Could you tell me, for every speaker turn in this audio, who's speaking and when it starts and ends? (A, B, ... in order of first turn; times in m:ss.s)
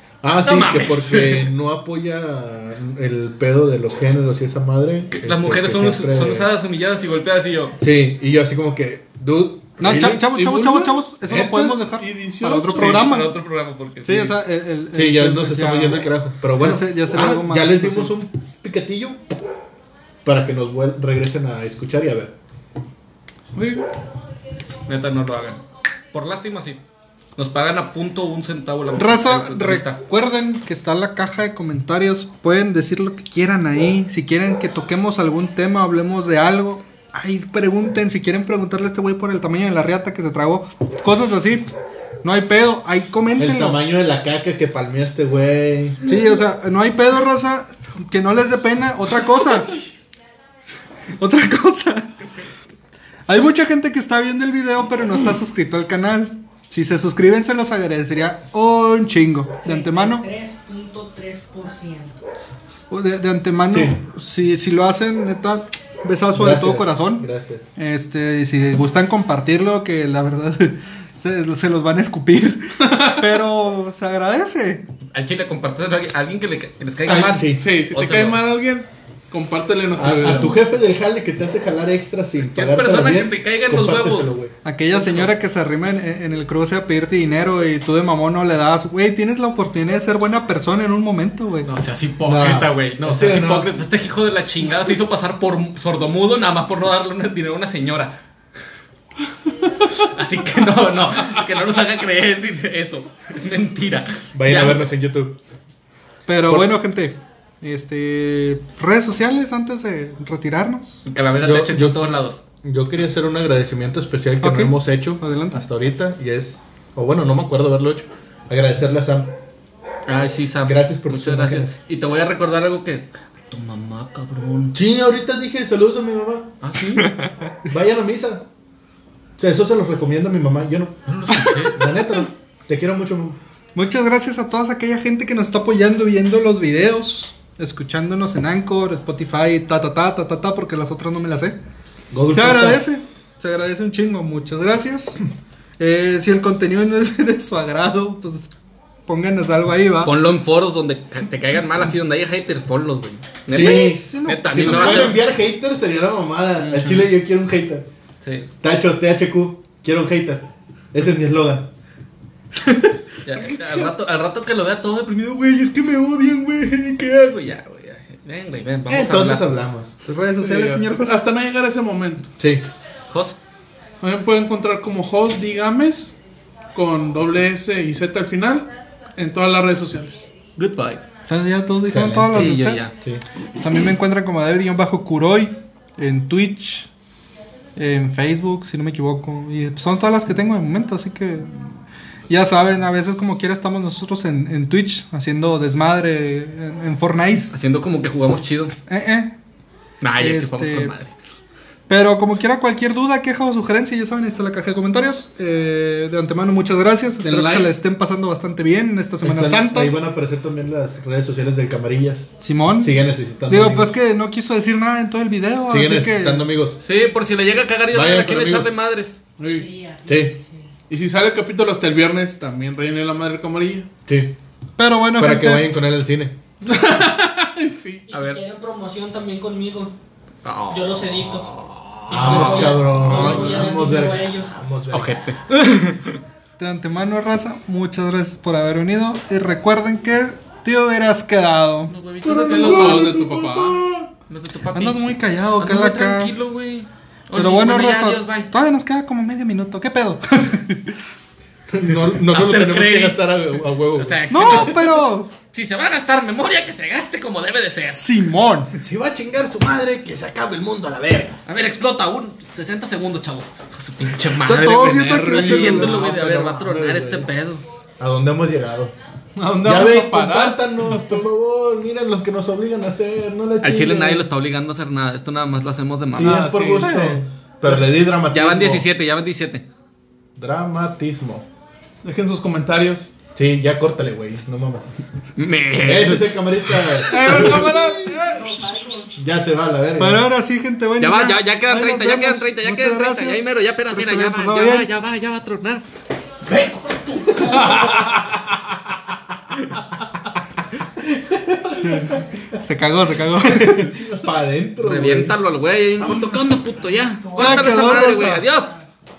0:00.2-0:06.5 A
0:00.4-0:01.5 B
0:05.1-0:07.8 B
0:07.8-0:10.4 A
0:09.8-0:13.4 C
0:10.3-0:11.0 D
0:11.2-0:11.9 A
0:11.9-0:13.1 D
0:12.7-0:14.4 B
0:14.0-0:18.2 C
0:14.9-0:19.2 A
0:20.2-0:22.3 A
0:23.5-0:23.8 D
0:24.9-0:26.8 B
0:27.4-0:30.0 B
0:29.0-0:41.7 C
0:42.2-0:43.8 C
0:43.4-0:46.0 A
0:46.0-0:49.8 C
0:51.2-0:52.1 C
0:53.3-1:00.3 C
0:59.6-1:02.2 E
1:02.9-1:14.9 C
1:03.7-1:04.0 A
1:06.3-1:07.7 A
1:12.8-1:13.4 D
1:15.1-1:18.5 B
1:17.0-1:17.7 A
1:17.6-1:20.6 D
1:19.9-1:24.5 A
1:22.4-1:24.3 B
1:24.6-1:31.7 C
1:24.9-1:25.3 B
1:31.6-1:38.2 B
1:32.2-1:33.7 A
1:39.9-1:44.9 B
1:44.3-1:45.4 A
1:46.3-1:51.0 C
1:46.5-1:46.7 A
1:51.0-1:52.4 B
1:51.4-1:52.0 A
1:52.6-1:59.3 A
1:54.4-1:55.6 C
2:00.1-2:04.8 B
2:00.6-2:01.7 A
2:04.7-2:06.5 A
2:06.6-2:07.3 B
2:07.6-2:08.4 A
2:09.4-2:13.4 A
2:11.1-2:11.8 B
2:13.7-2:21.6 C
2:22.1-2:22.8 A
2:22.3-2:25.2 C
2:25.8-2:28.5 C
2:29.1-2:30.1 C
2:30.0-2:35.2 B
2:33.5-2:37.8 A
2:33.5-2:35.1 C
2:36.6-2:37.1 B
2:38.2-2:38.5 B
2:38.6-2:41.7 A
2:43.2-2:49.4 B
2:48.9-2:49.9 A
2:50.0-2:51.2 C
2:50.4-2:52.3 D
2:52.4-2:52.6 A
2:53.1-2:53.4 B
2:54.0-2:56.1 D
2:56.7-3:00.3 D
3:00.6-3:01.0 B
3:01.3-3:02.9 C
3:01.8-3:03.2 A
3:02.3-3:02.9 B
3:03.6-3:06.9 C
3:07.8-3:17.6 C
3:17.5-3:18.7 B
3:18.9-3:19.3 C
3:20.0-3:21.1 B
3:20.2-3:20.9 C
3:21.9-3:29.9 C
3:27.2-3:27.7 B
3:29.2-3:33.9 A
3:32.4-3:33.0 C
3:33.5-3:36.5 C
3:35.7-3:36.8 A
3:36.8-3:39.2 B
3:37.9-3:38.7 A
3:39.4-3:39.7 D
3:39.5-3:40.7 E
3:40.0-3:40.4 A
3:40.9-3:43.9 D
3:44.0-3:44.4 A
3:44.8-3:45.7 C
3:45.2-3:46.4 A
3:46.6-3:48.1 D
3:48.1-3:49.9 E
3:48.1-3:48.4 B
3:50.4-3:53.8 B
3:50.7-3:51.5 E
3:52.1-3:54.5 E
3:52.1-3:55.2 A
3:54.9-3:56.2 B
3:56.6-4:01.9 C
4:01.9-4:03.4 B
4:02.3-4:04.1 A
4:02.5-4:03.8 D
4:04.3-4:08.5 B
4:04.7-4:06.3 C
4:07.3-4:10.9 C
4:11.7-4:14.7 A
4:12.1-4:18.1 B
4:14.3-4:15.3 C
4:17.7-4:18.7 C
4:18.8-4:21.4 A
4:21.4-4:27.6 B
4:24.4-4:26.0 C
4:24.7-4:27.3 A
4:28.0-4:28.9 A
4:29.3-4:31.2 D
4:29.6-4:34.3 A
4:33.6-4:36.5 B
4:36.1-4:38.8 A
4:36.2-4:37.0 D
4:36.8-4:37.2 C
4:38.3-4:39.6 B
4:40.4-4:41.4 A
4:42.0-4:43.1 D
4:43.3-4:45.0 A
4:45.4-4:47.4 B
4:45.8-4:47.8 A
4:47.1-4:48.5 D
4:47.5-4:49.1 E
4:49.2-4:50.3 A
4:50.0-4:54.9 C
4:51.0-4:55.8 B
4:56.4-4:58.2 A
4:57.3-4:57.7 E
4:57.5-4:58.1 D
5:00.8-5:02.2 A
5:01.8-5:04.0 C
5:03.4-5:05.4 A
5:04.8-5:08.7 B
5:07.2-5:08.0 E
5:07.4-5:08.4 C